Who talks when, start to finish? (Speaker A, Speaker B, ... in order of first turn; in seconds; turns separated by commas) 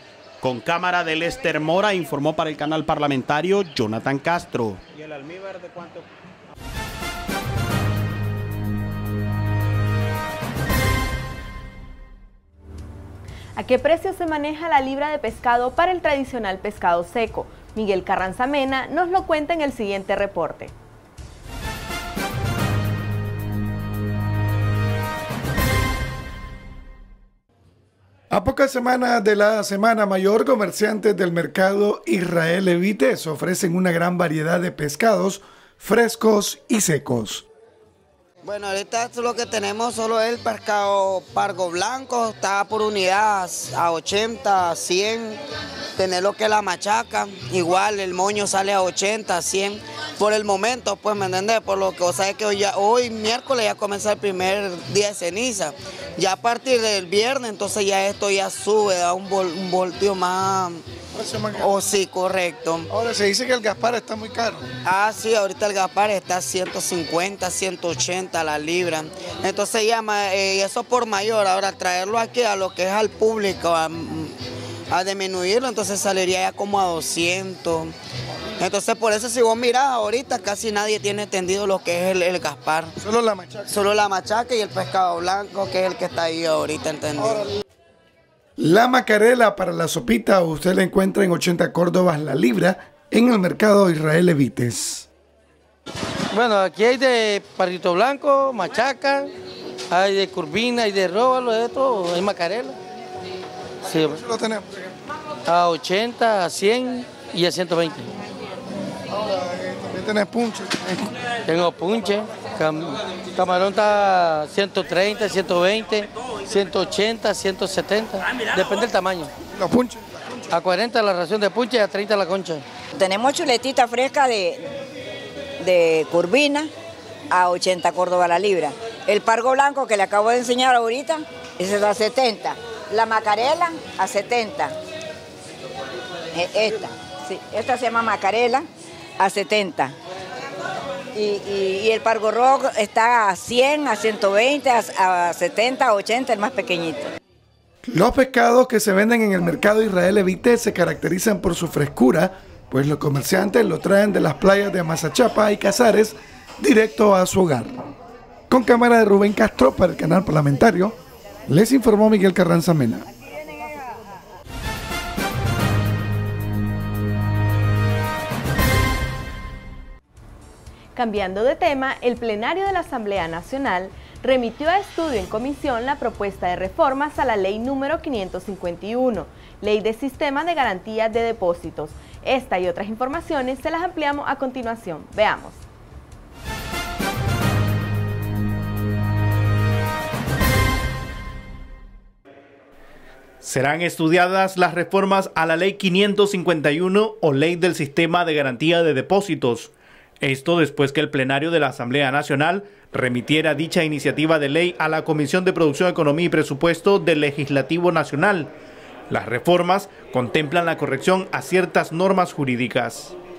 Speaker A: 0.4-4.8, Speaker B: 13.6-20.7, Speaker C: 28.3-37.5, Speaker D: 38.4-45.4, Speaker D: 46.0-60.8, Speaker C: 61.2-61.6, Speaker D: 61.5-62.9, Speaker C: 62.9-64.7, Speaker D: 64.8-74.4, Speaker D: 74.9-77.9, Speaker D: 78.6-82.9, Speaker C: 83.0-83.6, Speaker D: 83.7-87.4, Speaker C: 88.6-95.1, Speaker E: 96.3-99.3, Speaker E: 99.9-102.8, Speaker E: 103.9-104.2, Speaker C: 104.2-104.6, Speaker E: 105.5-108.1, Speaker C: 109.3-111.0, Speaker E: 111.5-119.3, Speaker C: 119.6-120.0, Speaker E: 120.5-122.6, Speaker F: 123.0-124.6, Speaker F: 125.6-126.7, Speaker F: 127.3-134.7, Speaker F: 136.4-138.6, Speaker F: 139.2-139.9, Speaker F: 141.2-147.0, Speaker C: 147.9-157.8, Speaker C: 158.5-160.9, Speaker C: 161.5-163.1, Speaker B: 171.0-185.6, Speaker G: 193.4-208.5, Speaker G: 209.1-213.1